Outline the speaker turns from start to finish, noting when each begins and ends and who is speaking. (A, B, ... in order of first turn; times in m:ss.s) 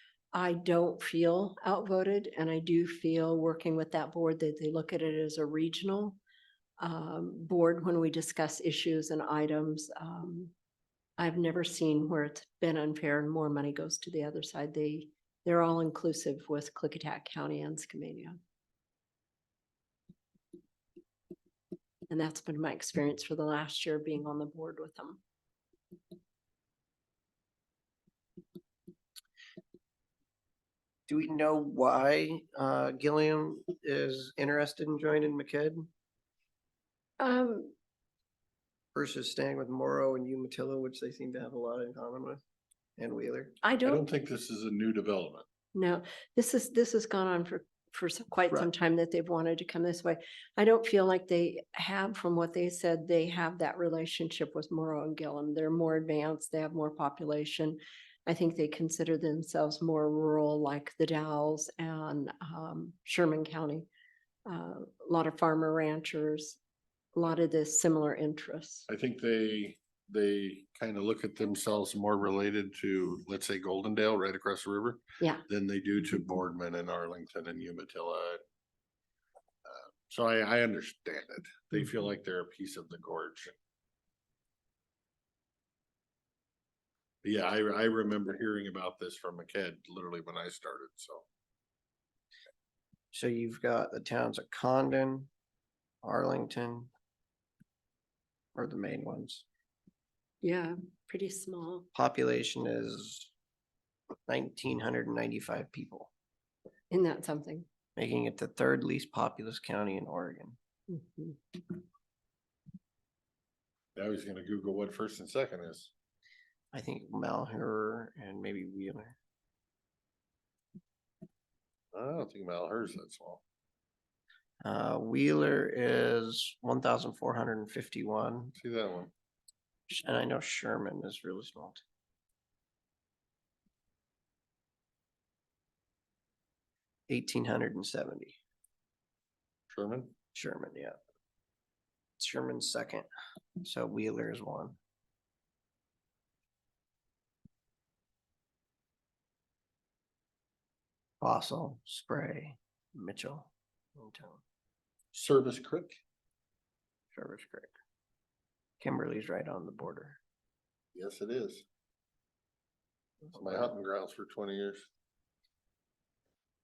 0:00.3-0:06.2 A
0:06.8-0:10.5 A
0:11.2-0:18.4 A
0:22.1-0:25.2 A
0:31.1-0:35.9 B
0:37.2-0:37.8 A
0:39.0-0:42.4 B
0:43.0-0:43.6 B
0:43.6-0:44.0 A
0:43.8-0:45.5 C
0:45.7-1:03.9 A
1:04.5-1:06.6 A
1:07.2-1:08.9 A
1:08.9-1:18.4 C
1:19.7-1:23.6 C
1:27.2-1:31.3 C
1:33.1-1:35.3 B
1:36.0-1:36.9 B
1:38.6-1:39.4 B
1:40.4-1:41.9 A
1:42.0-1:43.3 B
1:44.3-1:46.1 B
1:46.9-1:47.7 A
1:48.0-1:50.6 B
1:50.9-1:51.4 A
1:54.0-1:55.9 C
1:56.7-1:59.2 B
2:01.9-2:03.4 C
2:04.6-2:08.5 B
2:08.6-2:09.1 C
2:09.9-2:11.8 B
2:17.1-2:18.4 B
2:19.7-2:20.2 C
2:20.4-2:21.0 B
2:22.2-2:23.1 B
2:23.6-2:24.8 B
2:31.2-2:34.4 B
2:35.1-2:36.0 C
2:37.1-2:37.7 B
2:38.8-2:40.2 B
2:41.0-2:41.6 C
2:43.3-2:43.7 B
2:43.3-2:44.9 C